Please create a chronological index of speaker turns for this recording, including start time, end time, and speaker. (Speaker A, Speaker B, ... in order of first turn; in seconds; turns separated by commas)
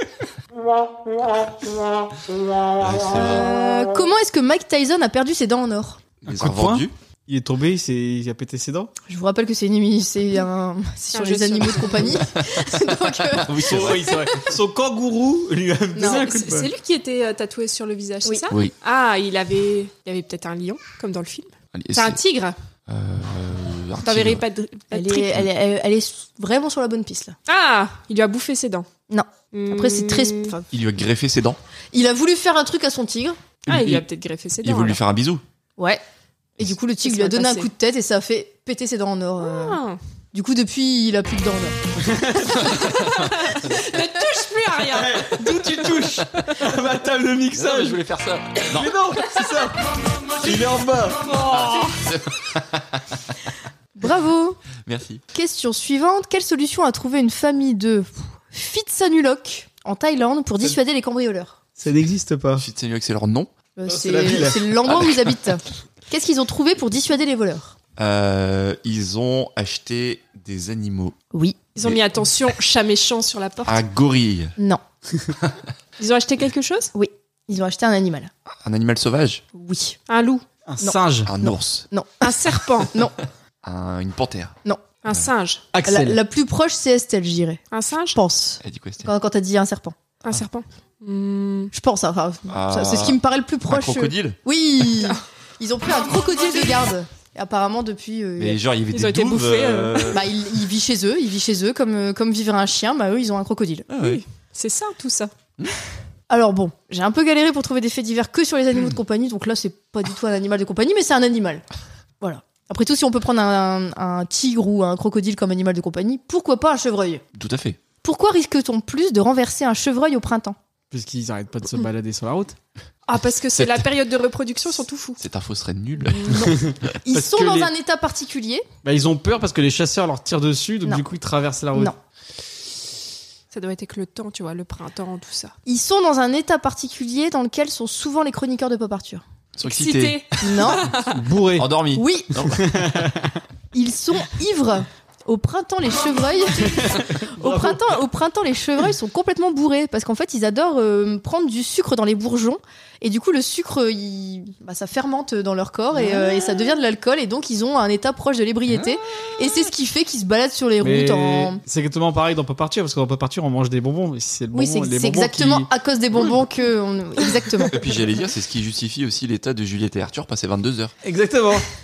Speaker A: 2.8-3.5, Speaker B: 3.1-6.0, Speaker A: 6.2-6.9, Speaker C: 6.3-8.9, Speaker B: 9.1-14.3, Speaker D: 11.1-12.2, Speaker A: 13.3-14.5, Speaker C: 13.7-16.7, Speaker B: 15.9-16.3, Speaker D: 16.1-22.6, Speaker A: 21.7-22.2, Speaker A: 22.9-24.4, Speaker D: 24.0-25.4, Speaker B: 24.9-27.4, Speaker D: 27.5-28.9, Speaker B: 29.1-30.7, Speaker D: 29.5-30.6, Speaker A: 30.7-31.6, Speaker B: 31.9-33.4, Speaker A: 33.7-34.0, Speaker D: 33.7-35.0, Speaker A: 34.6-35.4, Speaker B: 36.6-39.8, Speaker D: 37.0-37.7, Speaker D: 39.4-40.0, Speaker B: 40.3-41.8, Speaker C: 42.0-42.6, Speaker D: 42.9-45.6, Speaker C: 44.9-48.0, Speaker A: 47.5-48.9, Speaker C: 48.7-49.8, Speaker C: 50.4-51.9, Speaker A: 51.4-53.0, Speaker B: 54.0-54.6, Speaker A: 54.9-55.2, Speaker B: 55.3-61.6, Speaker C: 61.8-62.6, Speaker A: 62.6-63.5, Speaker B: 63.8-67.8, Speaker C: 63.9-64.7, Speaker A: 64.9-65.1, Speaker A: 68.0-71.2, Speaker B: 71.3-71.6, Speaker D: 71.8-73.8, Speaker A: 73.7-74.5, Speaker D: 76.0-76.9, Speaker B: 76.9-78.3, Speaker A: 78.6-79.4, Speaker B: 79.5-80.0, Speaker D: 80.1-80.4, Speaker C: 80.7-81.3, Speaker B: 80.8-83.2, Speaker A: 81.2-81.9, Speaker D: 82.2-82.9, Speaker A: 83.6-84.6, Speaker D: 85.0-85.6, Speaker C: 85.7-86.2, Speaker B: 85.9-87.6, Speaker D: 87.7-88.2, Speaker B: 88.1-90.0, Speaker A: 88.6-89.1, Speaker D: 90.2-91.7, Speaker B: 91.7-98.6, Speaker A: 92.5-94.4, Speaker A: 98.4-100.3, Speaker D: 98.9-100.2, Speaker B: 100.1-103.9, Speaker A: 103.9-104.2, Speaker D: 104.0-105.3, Speaker B: 106.3-111.6, Speaker B: 112.2-117.2, Speaker A: 117.3-117.8, Speaker B: 118.0-120.6, Speaker C: 120.9-122.6, Speaker D: 123.1-125.2, Speaker A: 123.5-123.9, Speaker A: 125.2-126.8, Speaker C: 126.3-127.7, Speaker B: 127.0-128.7, Speaker C: 128.8-131.9, Speaker D: 133.5-135.6, Speaker B: 135.7-139.2, Speaker A: 139.6-140.2, Speaker D: 139.6-141.2, Speaker B: 140.4-140.8, Speaker C: 141.0-141.7, Speaker A: 141.6-142.7, Speaker B: 141.9-142.3, Speaker C: 142.5-143.4, Speaker B: 143.7-161.6, Speaker C: 146.8-147.8, Speaker C: 160.8-165.7, Speaker B: 164.5-167.8, Speaker A: 167.6-170.9, Speaker C: 171.0-171.7